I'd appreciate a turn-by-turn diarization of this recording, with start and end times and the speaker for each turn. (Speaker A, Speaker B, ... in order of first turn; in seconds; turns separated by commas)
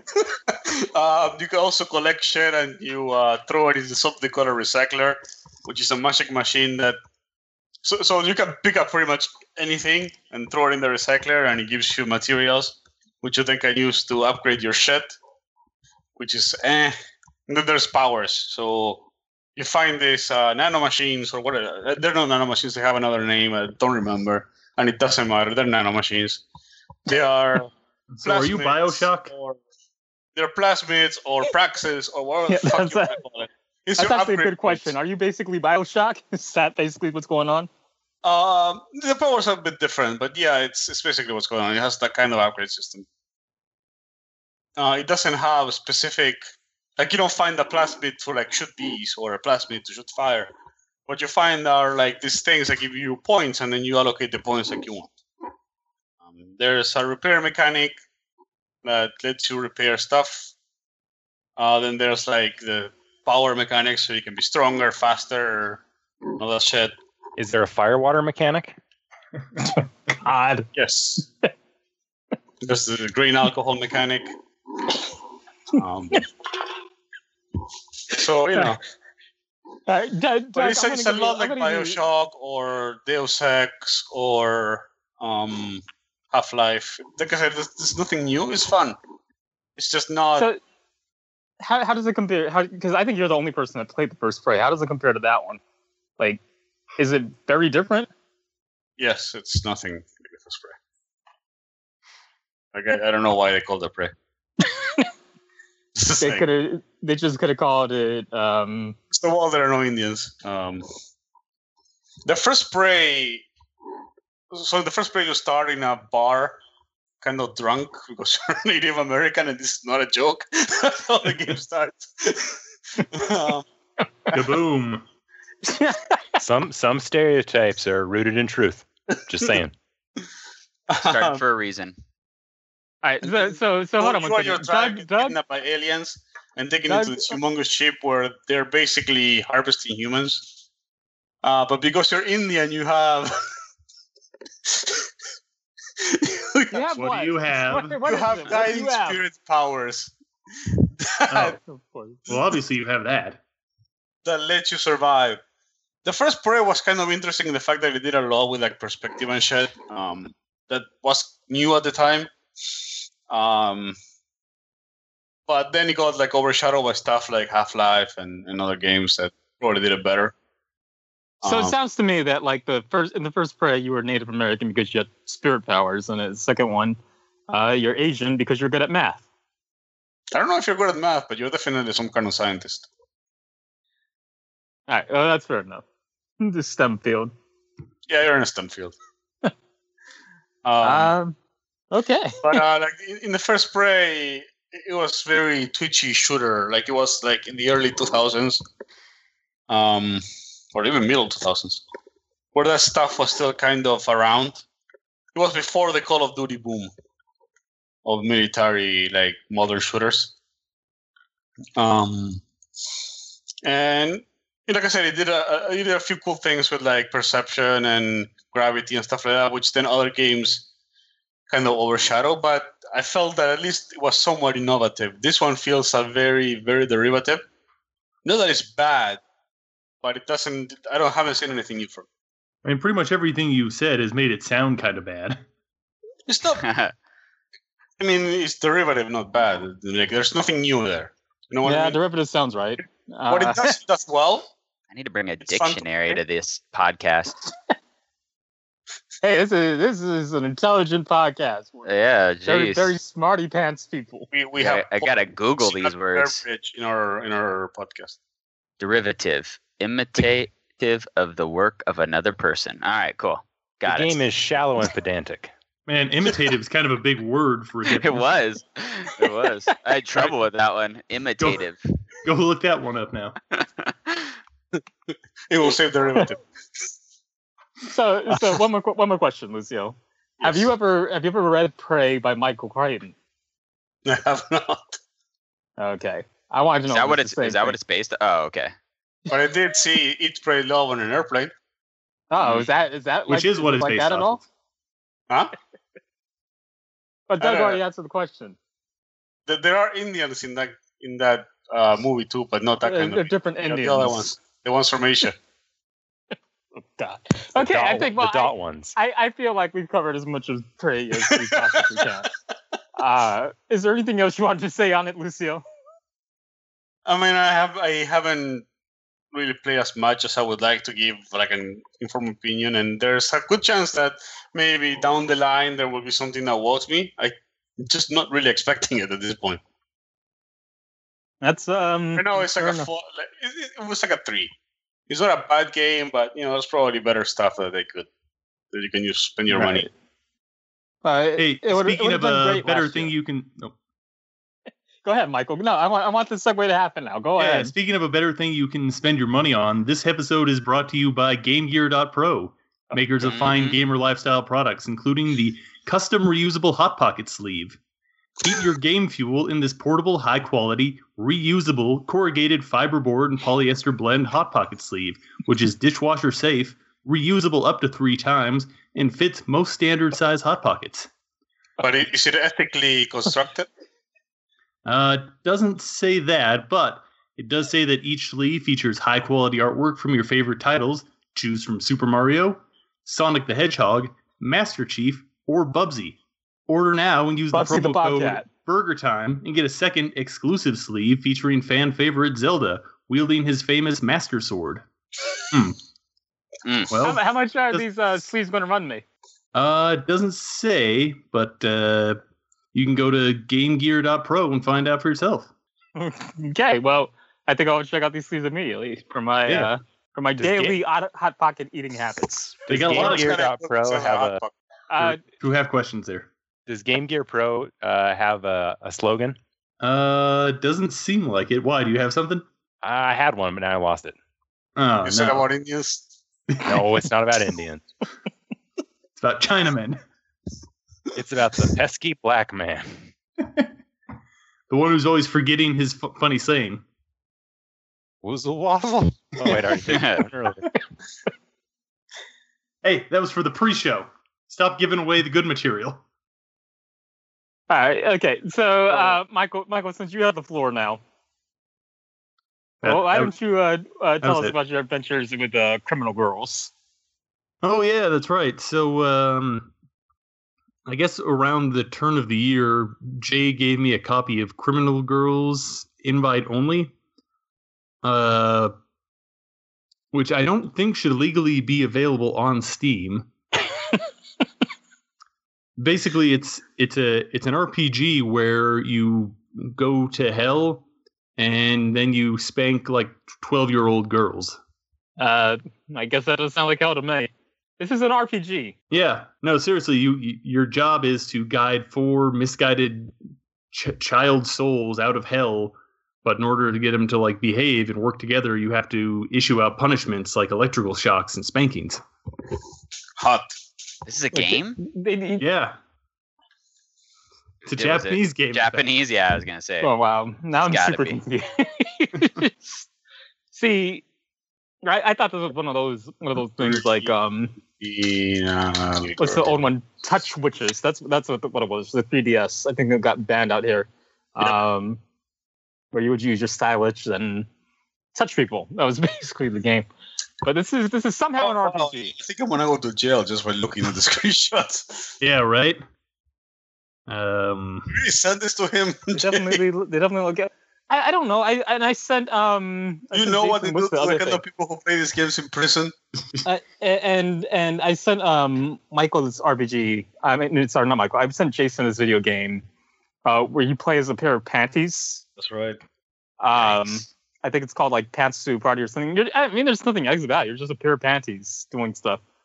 Speaker A: 0.1-7.0, Speaker A: 7.8-15.2, Speaker A: 16.2-16.9, Speaker A: 17.5-19.0, Speaker A: 19.6-26.4, Speaker A: 27.1-27.7, Speaker B: 28.1-29.3, Speaker A: 28.2-29.6, Speaker A: 30.4-34.9, Speaker C: 32.5-33.1, Speaker C: 34.0-37.7, Speaker A: 38.2-43.0, Speaker A: 44.8-46.4, Speaker A: 47.0-50.5, Speaker A: 51.1-55.1, Speaker A: 56.3-57.9, Speaker A: 58.8-60.5, Speaker A: 61.6-65.8, Speaker A: 66.4-66.9, Speaker D: 67.4-68.8, Speaker C: 70.2-70.7, Speaker A: 70.7-71.2, Speaker A: 72.6-74.3, Speaker A: 75.7-76.3, Speaker A: 78.1-78.8, Speaker C: 79.9-82.0, Speaker A: 80.5-89.0, Speaker A: 89.8-90.5, Speaker C: 91.6-95.6, Speaker C: 97.0-98.1, Speaker A: 99.0-100.8, Speaker A: 102.7-104.1, Speaker C: 104.8-105.1, Speaker A: 106.0-106.5, Speaker C: 106.2-109.0, Speaker A: 109.1-110.8, Speaker A: 112.3-113.5, Speaker A: 114.5-116.5, Speaker A: 117.2-123.6, Speaker B: 124.3-125.0, Speaker C: 125.6-126.4, Speaker D: 126.4-129.7, Speaker A: 130.9-131.4, Speaker E: 131.0-131.9, Speaker C: 133.0-135.4, Speaker A: 133.2-140.5, Speaker C: 136.9-137.4, Speaker A: 141.4-143.3, Speaker A: 144.7-145.1, Speaker A: 146.0-146.9, Speaker C: 146.7-149.2, Speaker B: 146.9-148.0, Speaker A: 148.0-150.1, Speaker A: 151.0-151.6, Speaker B: 151.3-151.6, Speaker C: 151.5-152.3, Speaker B: 152.3-153.4, Speaker A: 154.2-155.4, Speaker A: 156.0-163.9, Speaker A: 165.5-170.3, Speaker A: 171.4-171.8, Speaker C: 171.4-177.0, Speaker C: 177.5-179.2, Speaker A: 180.3-182.9, Speaker C: 184.9-185.8, Speaker C: 186.4-187.3, Speaker A: 188.1-188.9, Speaker A: 190.6-191.1, Speaker C: 190.8-191.4, Speaker C: 191.9-192.6, Speaker A: 192.4-198.6, Speaker A: 199.7-200.2, Speaker A: 200.7-201.8, Speaker A: 202.5-204.6, Speaker A: 205.3-206.9, Speaker A: 208.0-210.3, Speaker A: 211.8-212.4, Speaker A: 213.6-220.7, Speaker A: 221.5-227.4, Speaker A: 228.2-229.2, Speaker A: 230.0-232.1, Speaker B: 232.6-235.4, Speaker A: 236.3-236.7, Speaker E: 236.6-236.9, Speaker A: 238.0-242.0, Speaker C: 241.6-243.7, Speaker A: 243.3-244.5, Speaker E: 244.9-247.4, Speaker A: 245.4-246.2, Speaker C: 249.2-251.9, Speaker E: 251.9-252.9, Speaker C: 252.4-254.3, Speaker A: 254.3-258.2, Speaker E: 254.6-256.4, Speaker E: 258.8-264.2, Speaker D: 263.8-265.5, Speaker B: 265.9-268.4, Speaker E: 267.9-271.8, Speaker B: 271.4-271.6, Speaker B: 272.2-273.4, Speaker E: 273.6-274.2, Speaker A: 275.5-276.4, Speaker C: 277.9-283.1, Speaker A: 280.4-280.7, Speaker A: 284.0-285.0, Speaker C: 285.8-287.8, Speaker E: 286.9-288.7, Speaker A: 289.3-291.5, Speaker C: 292.3-294.4, Speaker E: 292.4-292.7, Speaker B: 293.3-294.4, Speaker C: 297.3-298.6, Speaker A: 297.4-297.8, Speaker A: 299.5-305.4, Speaker C: 302.8-304.3, Speaker C: 307.0-312.3, Speaker D: 307.6-308.9, Speaker A: 311.3-311.8, Speaker C: 313.0-315.6, Speaker A: 317.1-318.6, Speaker A: 319.3-329.6, Speaker C: 331.4-332.9, Speaker A: 332.1-334.5, Speaker A: 335.1-338.1, Speaker A: 338.7-339.9, Speaker C: 339.5-339.9, Speaker C: 341.0-343.1, Speaker B: 341.4-343.7, Speaker C: 345.0-347.7, Speaker B: 347.4-357.8, Speaker E: 353.2-353.8, Speaker B: 358.4-371.1, Speaker A: 371.8-373.7, Speaker B: 374.9-394.9, Speaker C: 387.5-388.5, Speaker B: 395.5-395.8, Speaker E: 396.6-396.9, Speaker B: 396.9-397.9, Speaker C: 397.0-399.0, Speaker B: 399.5-402.2, Speaker B: 402.7-405.5, Speaker C: 405.9-412.7, Speaker D: 410.4-410.8, Speaker D: 412.7-414.4, Speaker B: 412.7-413.4, Speaker A: 412.9-414.5, Speaker C: 414.9-415.2, Speaker B: 415.0-416.3, Speaker D: 416.7-419.4, Speaker B: 419.8-422.4, Speaker D: 422.8-424.1, Speaker B: 424.8-425.4, Speaker A: 425.0-426.1, Speaker B: 426.5-426.8, Speaker D: 426.6-427.8, Speaker B: 429.2-430.0, Speaker D: 431.1-433.1, Speaker B: 433.4-433.7, Speaker B: 434.7-436.8, Speaker D: 438.2-440.7, Speaker E: 439.9-440.2, Speaker B: 442.8-446.0, Speaker C: 447.7-451.0, Speaker B: 452.8-453.3, Speaker C: 452.8-456.7, Speaker B: 454.2-454.6, Speaker B: 457.6-459.7, Speaker B: 460.9-466.9, Speaker B: 468.0-468.7, Speaker B: 470.1-473.3, Speaker B: 475.8-480.8, Speaker B: 481.4-484.6, Speaker C: 485.2-488.7, Speaker B: 488.9-493.1, Speaker B: 493.7-502.0, Speaker A: 503.2-503.5, Speaker E: 504.1-504.8, Speaker C: 504.3-505.4, Speaker B: 505.4-505.8, Speaker B: 507.6-508.9, Speaker E: 507.7-509.9, Speaker C: 509.8-512.8, Speaker E: 510.6-511.2, Speaker C: 513.5-514.0, Speaker C: 514.8-517.5, Speaker A: 516.6-517.1, Speaker A: 517.8-519.6, Speaker C: 519.2-525.0, Speaker C: 525.9-527.5, Speaker C: 528.1-529.9, Speaker C: 530.4-532.1, Speaker A: 531.4-535.1, Speaker B: 535.2-535.8, Speaker B: 537.1-538.0, Speaker A: 537.9-539.6, Speaker C: 539.1-544.4, Speaker A: 543.1-545.9, Speaker C: 546.4-552.6, Speaker C: 553.2-555.2, Speaker A: 555.4-555.8, Speaker C: 556.4-562.2, Speaker E: 556.5-557.0